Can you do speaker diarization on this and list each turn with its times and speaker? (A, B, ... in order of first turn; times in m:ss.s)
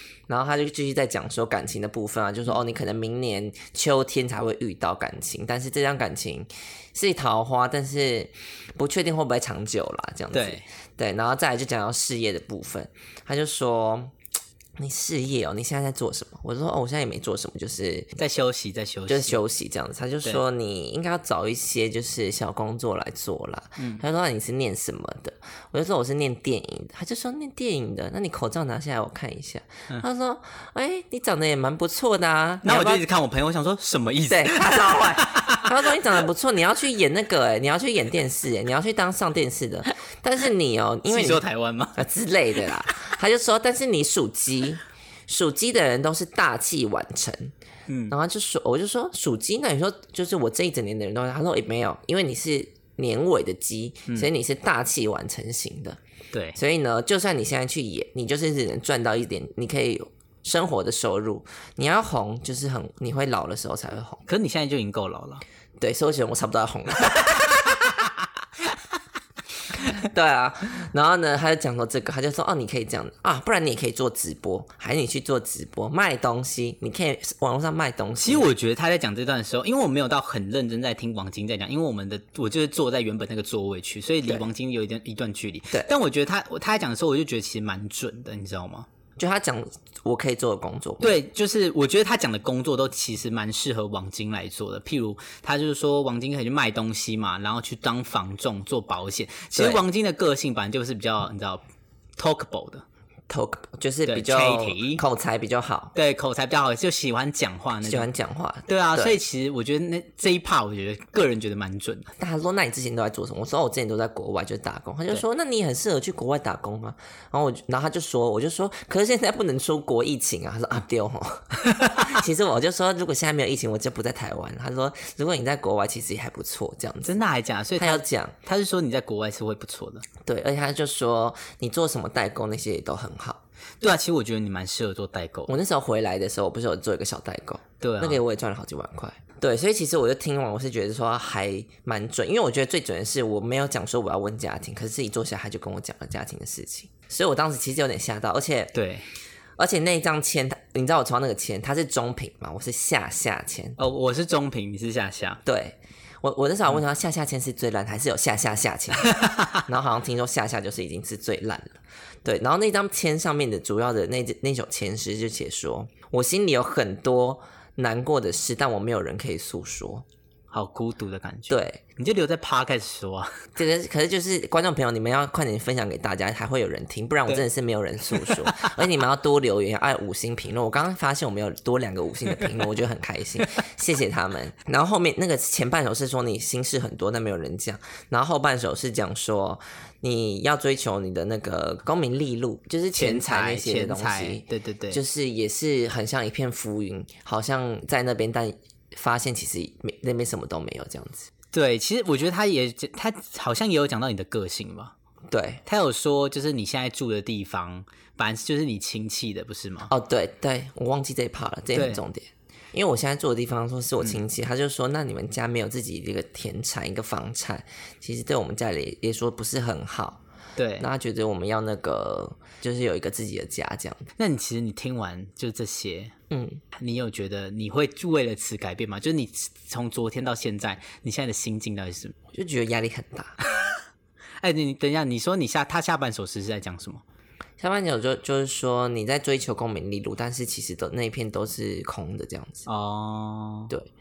0:00.3-0:14.1 A
0:10.3-0:10.6 B
0:14.8-0:18.1 A
0:18.2-0:19.4 B
0:19.1-0:33.0 A
0:32.6-0:35.7 B
0:34.3-0:41.4 A
0:41.1-0:42.0 B
0:42.0-0:47.5 A
0:47.9-0:48.2 B
0:48.1-0:56.0 A
0:56.6-1:04.2 A
1:04.3-1:05.4 B
1:05.8-1:07.9 A
1:09.9-1:18.4 A
1:18.2-1:28.9 B
1:29.2-1:31.2 A
1:31.0-1:41.6 B
1:39.6-1:39.8 A
1:42.2-1:42.8 B
1:43.3-1:45.9 A
1:44.1-1:45.0 B
1:46.0-1:48.1 B
1:47.8-1:49.2 A
1:48.7-1:52.1 B
1:52.2-2:07.2 A
2:01.7-2:02.1 B
2:07.0-2:10.1 B
2:07.8-2:08.4 A
2:10.2-2:13.4 A
2:13.8-2:15.5 B
2:15.5-2:28.7 A
2:17.8-2:18.2 B
2:28.7-2:29.1 B
2:29.6-2:33.8 A
2:33.8-2:35.4 B
2:35.4-2:39.1 A
2:39.0-2:39.6 B
2:39.7-2:50.0 A
2:50.5-2:53.3 B
2:51.5-2:51.8 A
2:53.6-3:21.3 A
2:58.1-2:58.7 B
3:13.0-3:15.0 B
3:21.5-3:24.9 B
3:25.3-3:25.6 A
3:25.7-3:29.9 B
3:29.9-3:40.2 A
3:31.7-3:32.0 B
3:40.6-3:40.9 B
3:40.8-3:44.1 A
3:44.2-3:46.1 B
3:46.3-3:46.6 A
3:46.8-3:52.2 B
3:52.3-3:53.4 A
3:54.4-3:57.0 B
3:57.6-4:02.7 A
4:02.7-4:03.7 B